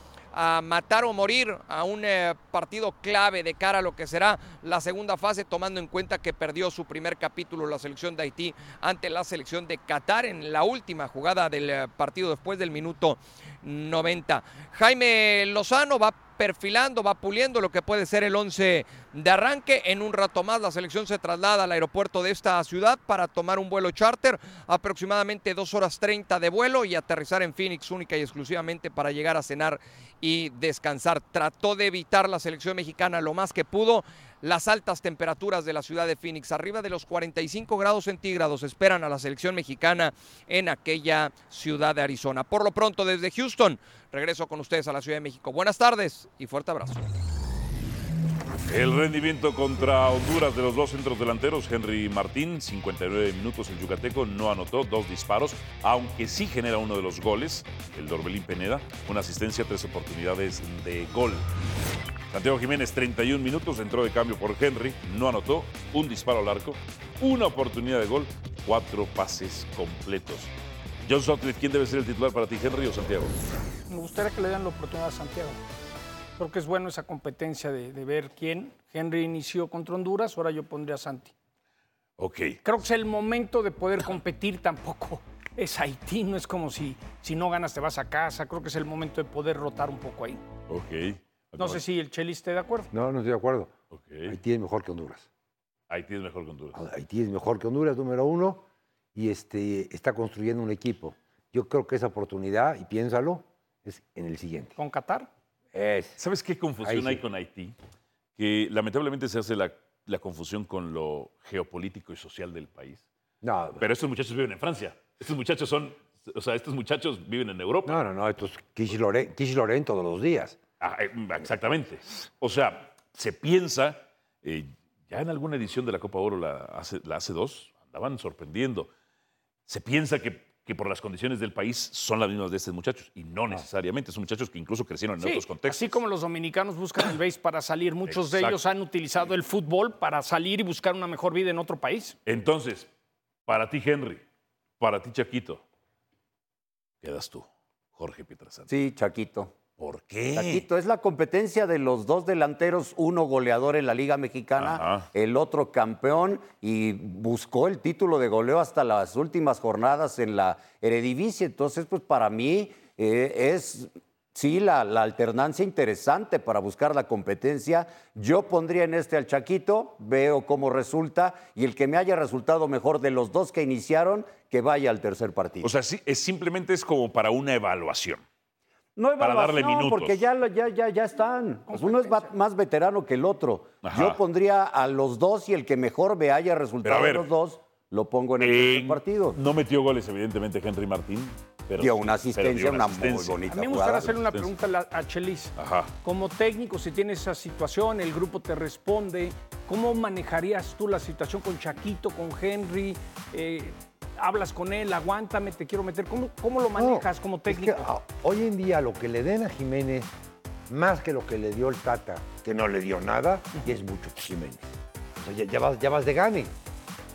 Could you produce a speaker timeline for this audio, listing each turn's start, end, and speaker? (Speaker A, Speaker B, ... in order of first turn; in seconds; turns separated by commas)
Speaker A: 0.3-47.1, Speaker B: 48.6-61.5, Speaker B: 62.3-70.5, Speaker B: 71.0-73.3, Speaker C: 73.9-75.6, Speaker C: 76.4-81.3, Speaker B: 82.2-82.6, Speaker C: 82.6-90.4, Speaker B: 90.7-91.8, Speaker C: 91.6-92.9, Speaker D: 92.9-93.7, Speaker B: 93.9-94.4, Speaker D: 94.2-95.3, Speaker B: 95.9-96.8, Speaker D: 96.7-98.6, Speaker D: 99.1-104.7, Speaker C: 104.8-105.3, Speaker D: 105.7-106.2, Speaker B: 106.2-107.7, Speaker D: 106.8-107.2, Speaker B: 108.4-113.0, Speaker D: 113.4-113.8, Speaker B: 113.8-118.0, Speaker D: 117.8-120.6, Speaker B: 120.8-128.9, Speaker B: 129.7-136.0, Speaker C: 135.2-142.2, Speaker B: 138.1-138.6, Speaker B: 142.2-142.9, Speaker B: 143.5-144.2, Speaker B: 144.8-145.6, Speaker B: 147.0-148.7, Speaker E: 148.7-149.5, Speaker B: 149.8-150.6, Speaker E: 150.3-175.7, Speaker B: 154.6-155.1, Speaker B: 175.6-178.2, Speaker E: 179.0-189.4, Speaker B: 179.2-180.2, Speaker C: 181.7-182.3, Speaker B: 183.8-184.2, Speaker B: 186.8-187.3, Speaker B: 188.4-194.5, Speaker E: 191.8-194.1, Speaker C: 193.5-207.9, Speaker B: 195.6-195.9, Speaker D: 206.8-210.1, Speaker D: 210.7-216.5